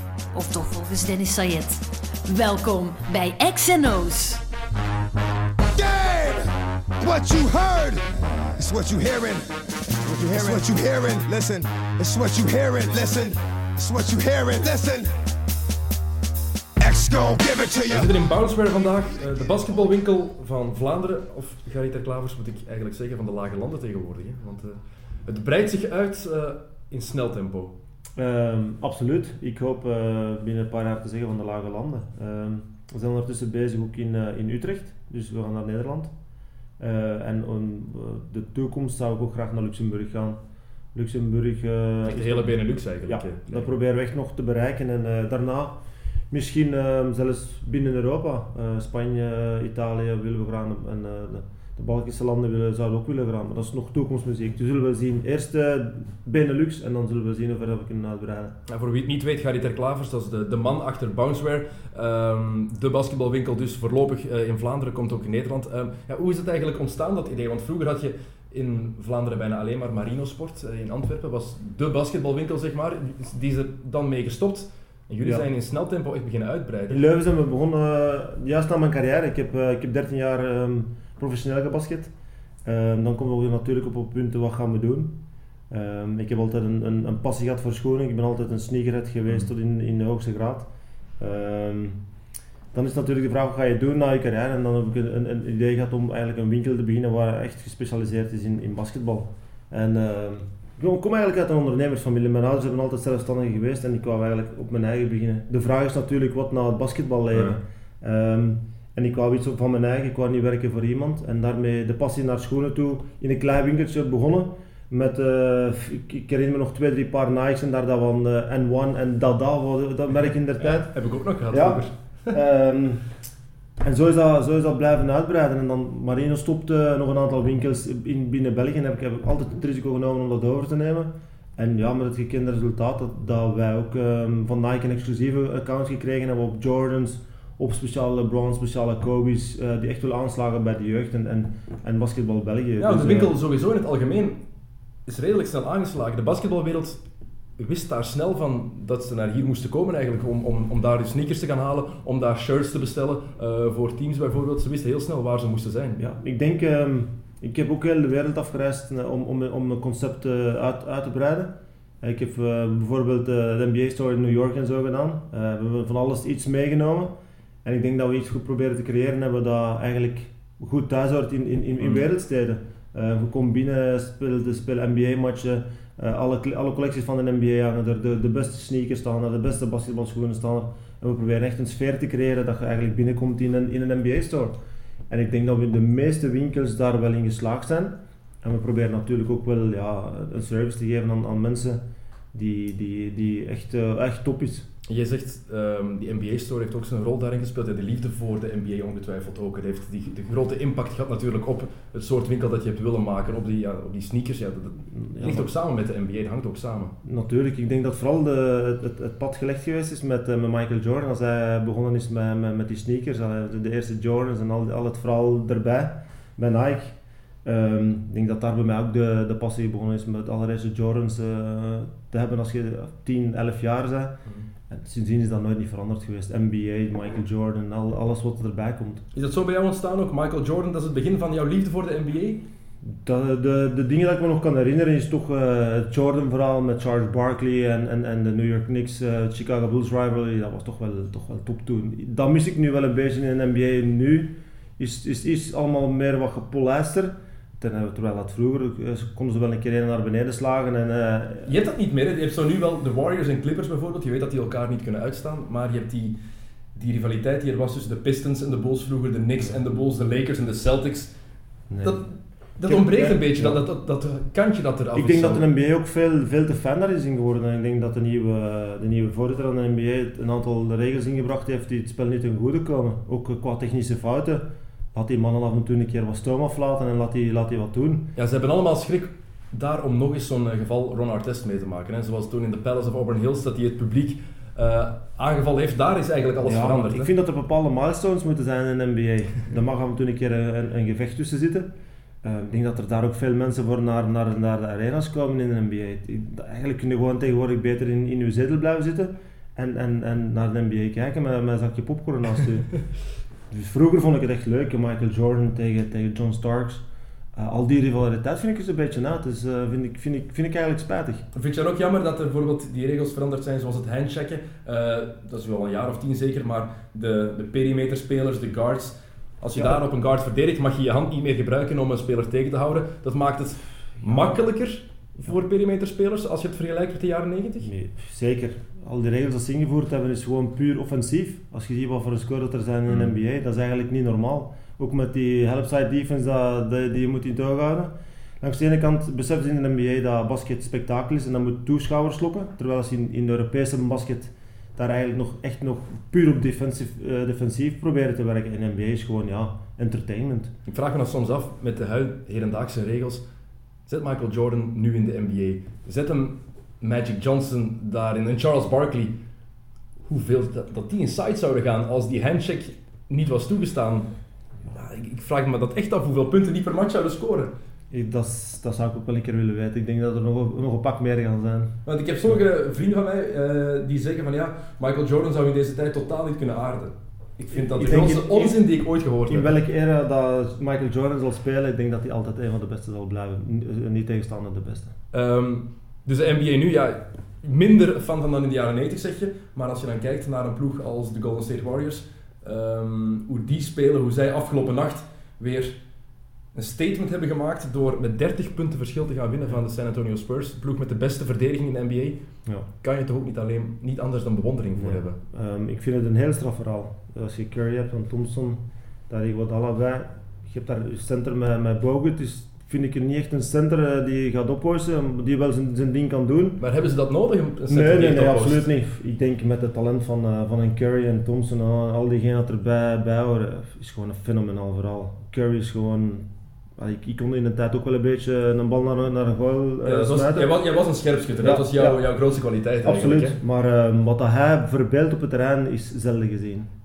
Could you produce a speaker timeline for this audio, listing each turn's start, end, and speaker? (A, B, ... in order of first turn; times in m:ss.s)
0:00.3-0:04.4 A
0:05.7-0:08.0 B
0:08.6-0:15.1 B
0:16.8-0:18.1 B
0:17.9-0:27.7 C
0:28.2-0:36.1 D
0:36.8-0:40.4 D
0:40.9-0:45.8 D
0:42.0-0:43.7 C
0:46.3-0:58.6 D
0:58.7-1:17.0 C
1:16.9-1:22.1 D
1:22.6-1:25.2 D
1:25.7-1:30.7 D
1:31.2-1:32.0 D
1:32.7-2:00.9 D
2:00.6-2:02.3 C
2:01.5-2:03.0 D
2:03.8-2:23.3 D
2:22.8-2:24.4 C
2:25.0-2:27.0 C
2:27.6-2:36.0 C
2:36.0-3:04.6 D
3:05.1-3:11.8 D
3:12.3-3:14.7 D
3:14.9-3:26.9 C
3:24.9-3:25.5 D
3:27.0-3:49.0 D
3:49.1-3:52.4 C
3:52.8-4:11.5 D
4:11.4-4:16.2 C
4:16.8-4:21.1 C
4:21.7-4:22.0 D
4:21.8-4:25.4 C
4:22.6-4:23.6 D
4:24.9-4:38.1 D
4:38.1-4:47.1 C
4:46.4-4:51.7 D
4:52.2-5:02.7 D
5:03.5-5:06.8 D
5:07.3-5:11.2 D
5:11.3-5:27.7 C
5:24.0-5:24.4 D
5:27.6-5:50.5 D
5:50.7-5:53.2 C
5:53.9-5:59.2 C
6:00.0-6:04.1 C
6:04.7-6:07.5 C
6:07.9-6:11.7 D
6:11.8-6:19.5 C
6:17.5-6:18.6 D
6:19.3-6:24.9 D
6:25.1-6:35.8 C
6:36.6-6:42.2 C
6:42.8-6:45.2 C
6:44.8-6:56.6 D
6:56.6-6:58.6 C
6:57.7-7:10.5 D
7:09.8-7:13.4 C
7:11.4-7:12.0 D
7:12.8-7:16.7 D